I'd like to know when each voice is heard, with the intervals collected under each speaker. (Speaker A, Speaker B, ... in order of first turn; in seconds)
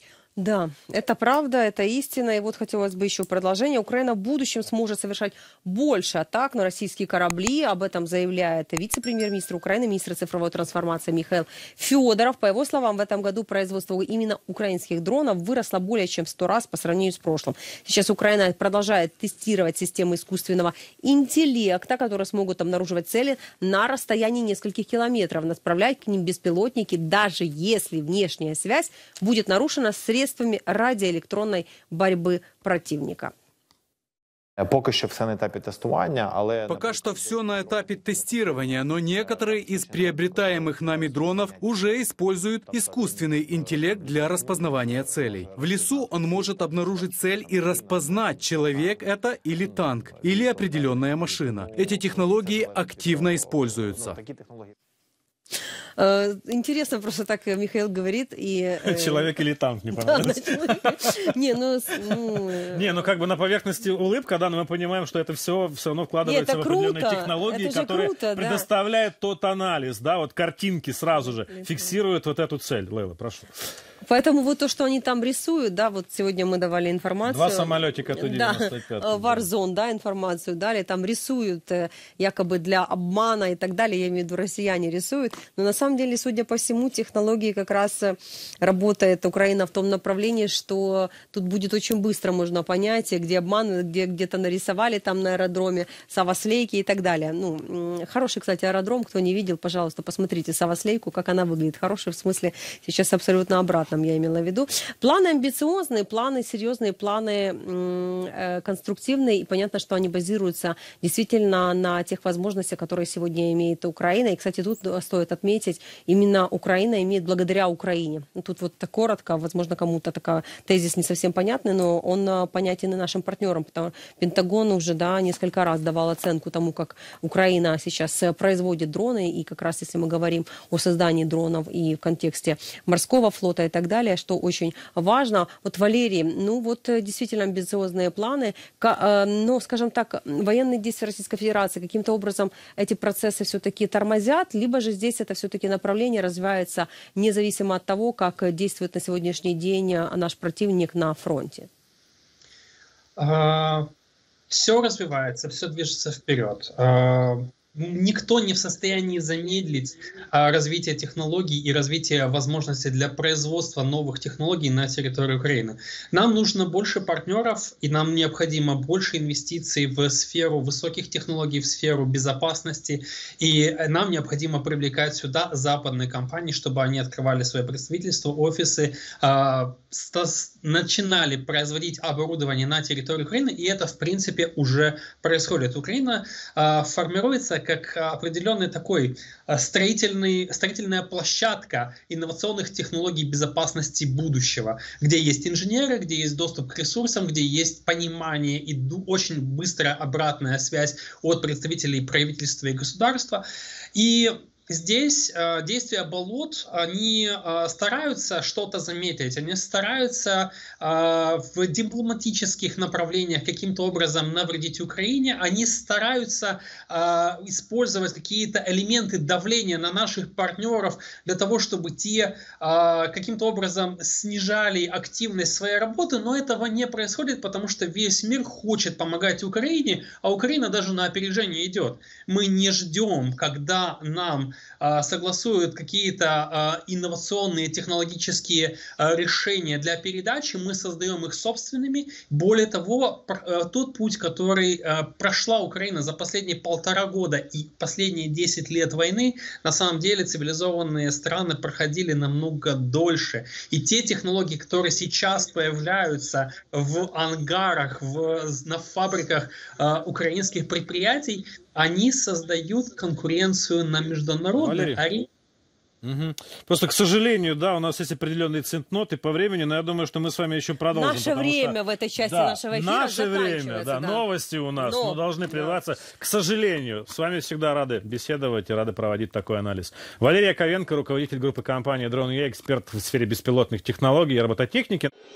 Speaker A: 0.4-33.3, 56.0-59.3, 60.0-63.0, 66.2-68.7, 74.0-151.7, 270.9-275.8
Speaker B: 34.6-41.9, 42.5-54.7
Speaker C: 36.7-54.2
Speaker D: 58.8-61.2, 62.7-73.5, 77.2-79.5, 264.6-265.0, 266.0-285.1
Speaker E: 153.2-153.9, 154.5-203.4, 203.9-265.3